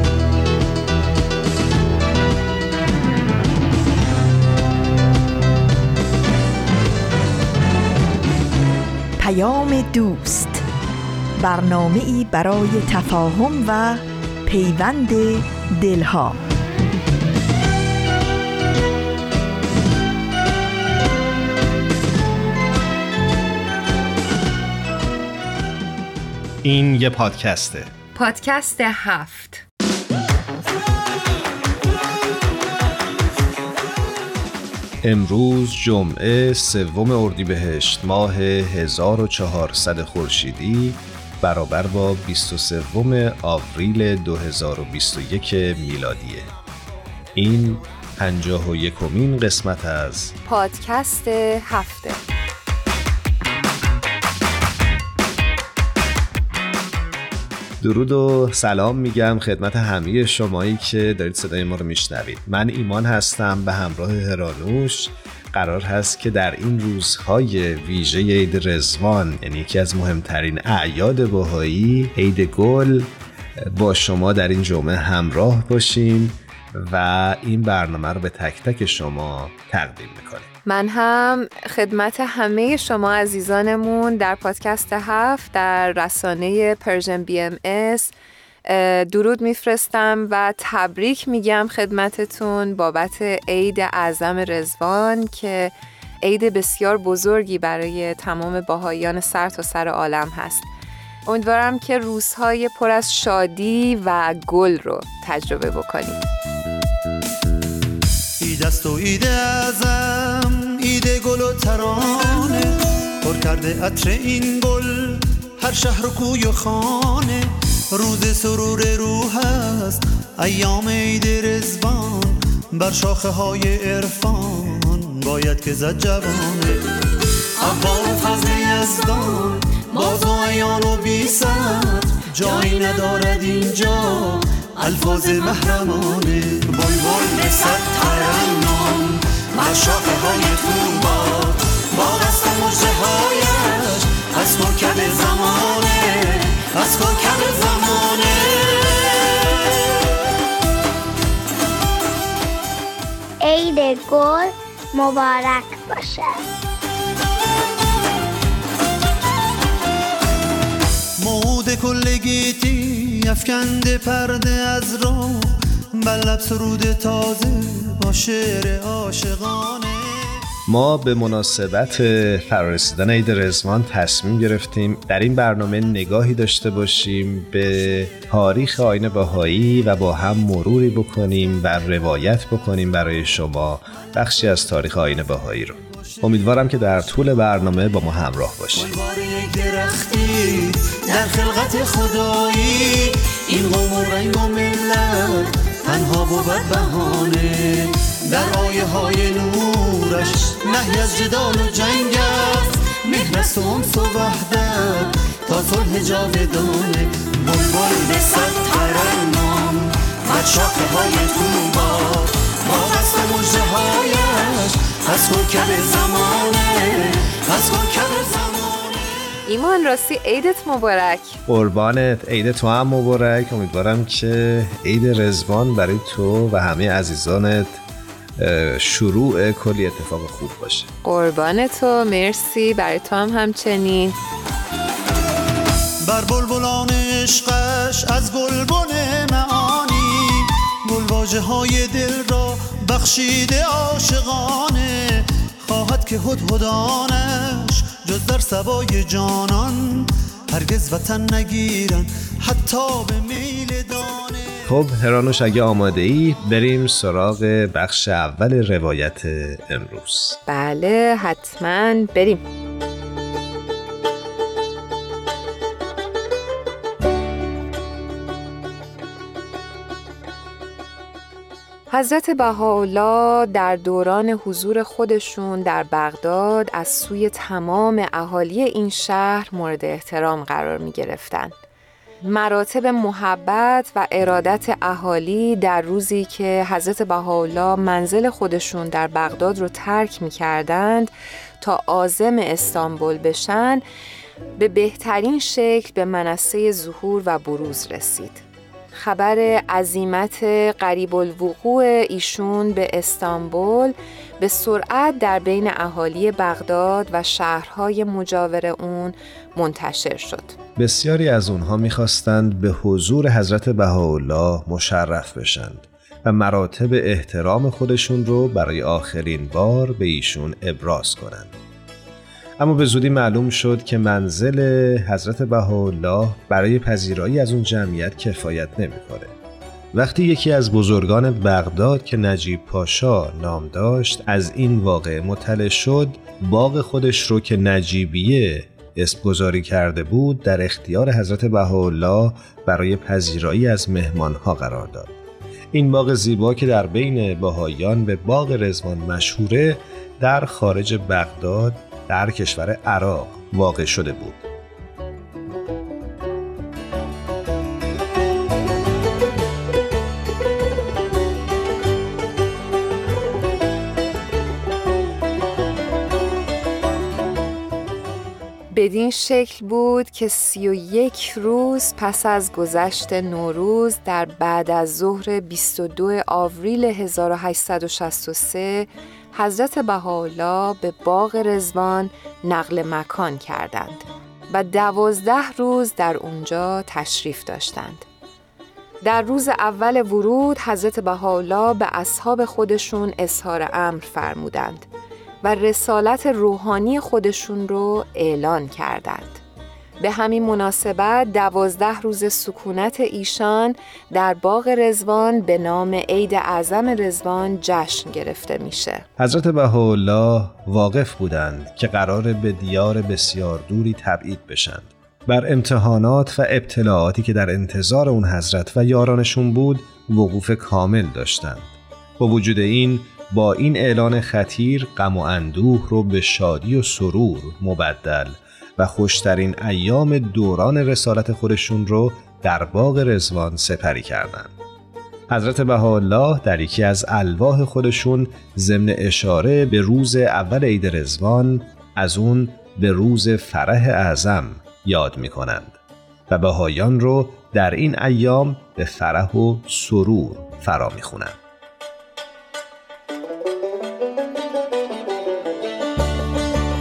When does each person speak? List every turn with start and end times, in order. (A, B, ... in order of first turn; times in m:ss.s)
0:09.2-0:10.6 A
0:11.4-0:16.4 A
0:26.6-0:27.9 B
0:28.2-0:29.6 C
0:35.0-0:46.5 B
0:47.4-0:50.4 B
0:50.4-0:52.2 C
0:57.8-1:20.5 B
1:20.6-1:28.1 C
1:28.6-1:40.7 C
1:41.3-1:46.2 C
1:48.4-2:06.8 D
2:07.6-2:30.1 D
2:33.4-2:36.4 E
2:41.2-2:50.2 D
2:50.7-3:08.9 B
3:08.8-3:39.1 D
3:39.5-3:41.4 C
3:41.5-3:47.8 B
3:48.4-3:50.9 B
3:51.0-3:54.2 C
3:56.1-4:05.0 D
4:05.6-4:14.6 D
4:14.7-4:20.4 B
4:20.5-4:22.4 C
4:31.9-4:41.5 C
4:42.2-4:53.8 C
4:54.6-4:58.4 C
4:58.9-5:10.6 C
5:10.8-5:21.6 B
5:22.6-5:29.3 B
5:29.9-5:45.1 B
5:45.7-5:54.4 B
6:08.7-6:28.0 C
6:29.0-6:34.9 C
6:35.4-6:39.4 C
6:40.0-6:49.1 C
6:49.2-7:14.5 B
7:15.3-7:31.4 B